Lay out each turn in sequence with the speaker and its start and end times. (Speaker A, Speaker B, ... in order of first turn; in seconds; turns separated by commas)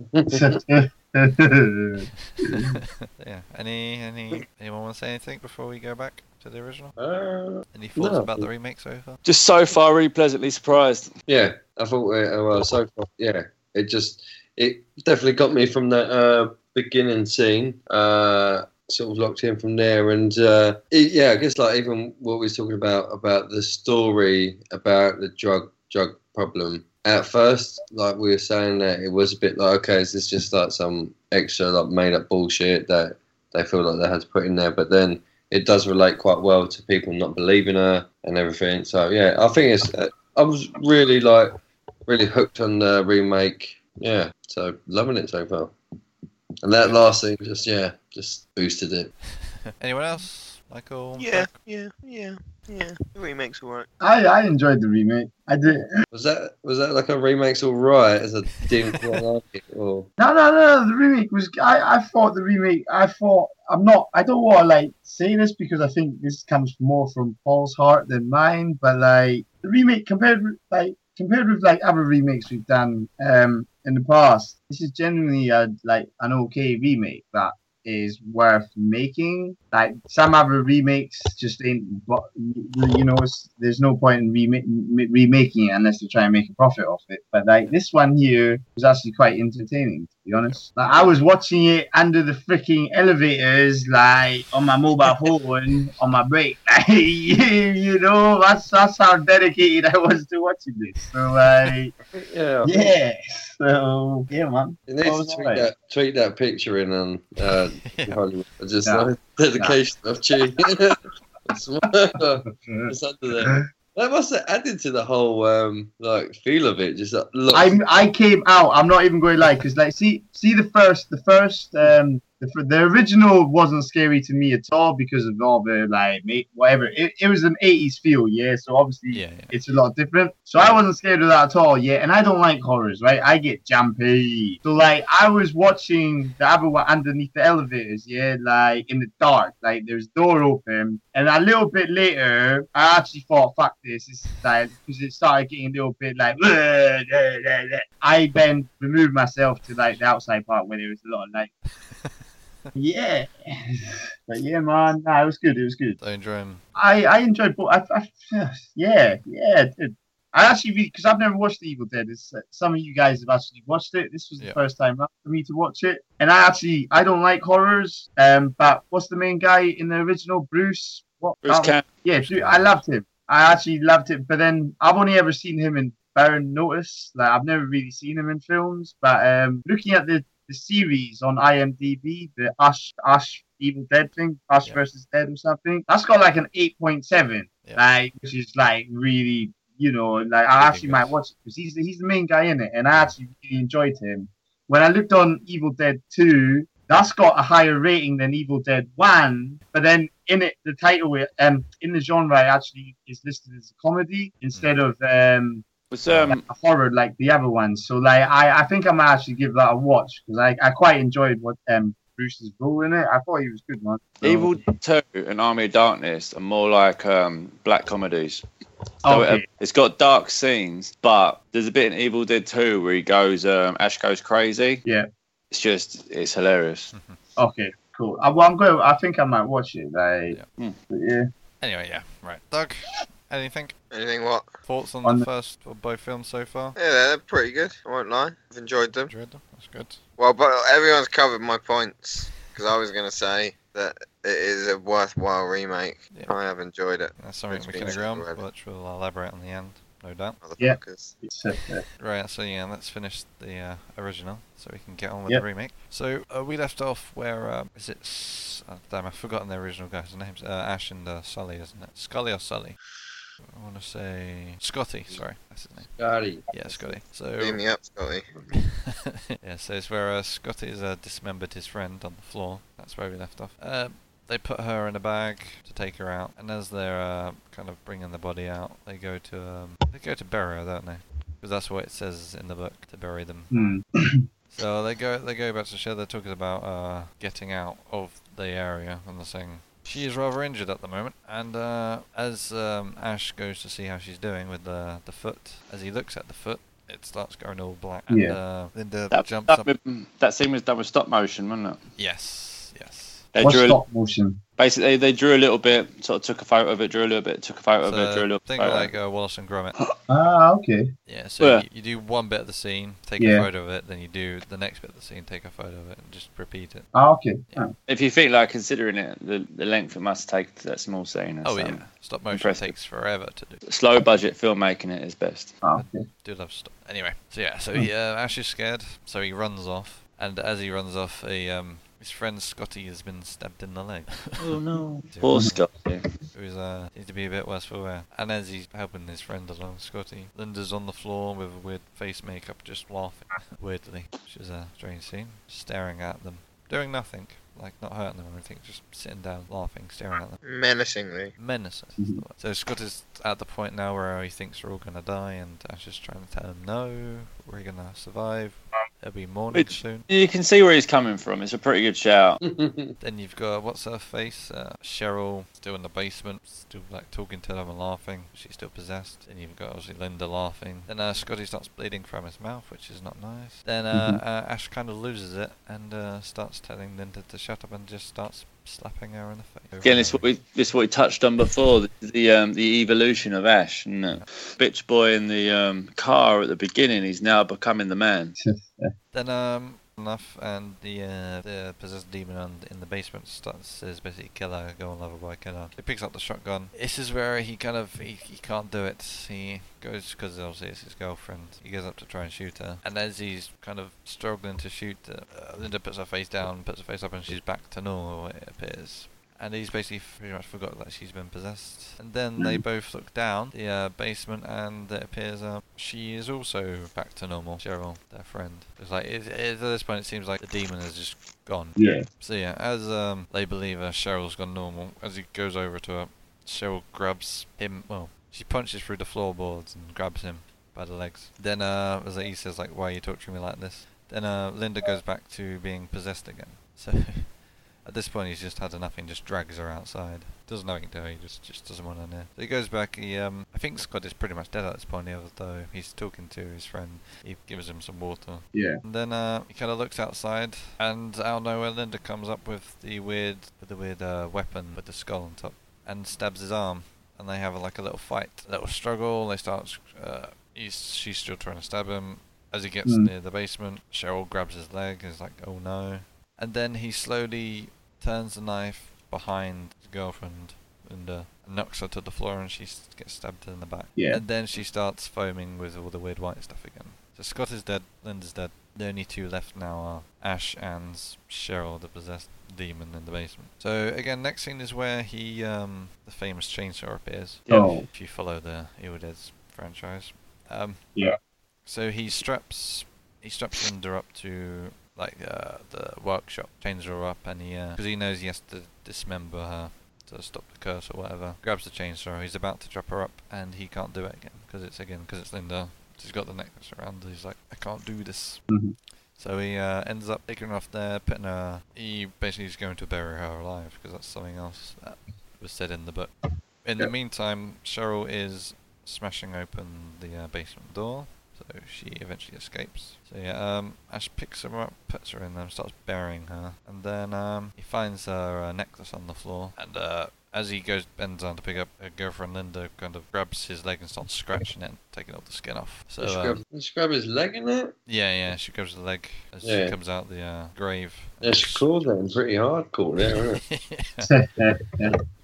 Speaker A: 0.1-0.6, Speaker B: 0.3-2.8, Speaker C: 2.3-6.9, Speaker A: 7.0-8.5, Speaker C: 7.7-9.2, Speaker D: 9.2-11.1, Speaker A: 11.3-45.7, Speaker A: 46.6-49.1, Speaker C: 49.4-51.6, Speaker E: 51.2-53.9, Speaker B: 54.0-55.9, Speaker A: 56.1-60.1, Speaker C: 58.7-59.2, Speaker B: 60.2-101.9, Speaker A: 102.1-102.9, Speaker B: 102.6-105.7, Speaker A: 104.9-117.8, Speaker C: 107.8-108.2, Speaker B: 108.8-109.8, Speaker B: 112.5-113.6, Speaker B: 117.5-151.5, Speaker C: 129.1-129.5, Speaker C: 151.9-152.7, Speaker B: 152.7-156.0, Speaker C: 156.0-156.6, Speaker B: 156.8-205.6, Speaker D: 171.4-171.8, Speaker C: 172.2-172.8, Speaker C: 190.6-191.1, Speaker D: 205.9-206.4, Speaker C: 206.1-206.3, Speaker B: 206.3-214.6, Speaker D: 214.2-218.4, Speaker B: 219.0-219.4, Speaker D: 219.1-224.8, Speaker D: 225.5-226.9, Speaker C: 226.9-227.2, Speaker B: 227.3-230.4, Speaker B: 230.9-231.3, Speaker C: 231.6-233.7, Speaker E: 233.9-234.5, Speaker C: 234.7-236.8, Speaker E: 236.8-239.1, Speaker C: 239.1-240.0, Speaker E: 240.2-248.4, Speaker C: 246.1-246.4, Speaker C: 247.2-250.4, Speaker E: 250.4-251.2, Speaker B: 250.6-251.8, Speaker C: 252.0-262.8, Speaker C: 263.4-266.0, Speaker A: 266.0-266.9, Speaker C: 266.5-267.6, Speaker E: 267.4-268.2, Speaker C: 268.5-283.6, Speaker B: 283.5-284.2, Speaker C: 284.5-299.7, Speaker B: 298.1-298.4, Speaker D: 299.1-301.8, Speaker C: 302.0-303.3, Speaker D: 303.3-303.8, Speaker B: 303.4-304.4, Speaker D: 304.6-308.9, Speaker C: 307.8-309.7, Speaker B: 310.1-310.9, Speaker C: 311.1-316.9, Speaker D: 311.4-311.6, Speaker B: 313.2-313.5, Speaker B: 316.9-317.7, Speaker D: 317.9-322.7, Speaker C: 321.4-323.6, Speaker D: 323.6-325.5, Speaker B: 325.6-326.1, Speaker C: 325.7-334.5, Speaker D: 334.4-336.0, Speaker C: 335.1-335.6, Speaker C: 336.3-350.4, Speaker E: 350.4-351.3, Speaker C: 351.3-360.1, Speaker D: 359.5-362.4, Speaker A: 362.4-362.9, Speaker C: 363.0-380.3, Speaker B: 373.9-374.2, Speaker D: 379.8-388.4, Speaker B: 388.4-388.9, Speaker C: 389.1-490.9, Speaker B: 421.8-422.1, Speaker B: 448.5-448.8, Speaker B: 462.8-463.1, Speaker B: 473.9-474.2, Speaker D: 487.5-487.8, Speaker B: 487.5-487.9, Speaker C: 491.6-508.4, Speaker B: 508.5-508.8, Speaker C: 509.1-516.1, Speaker C: 516.6-536.4, Speaker A: 536.0-537.7, Speaker C: 537.9-541.9, Speaker A: 539.4-539.8, Speaker A: 541.2-543.4, Speaker C: 543.4-544.1, Speaker B: 544.0-545.0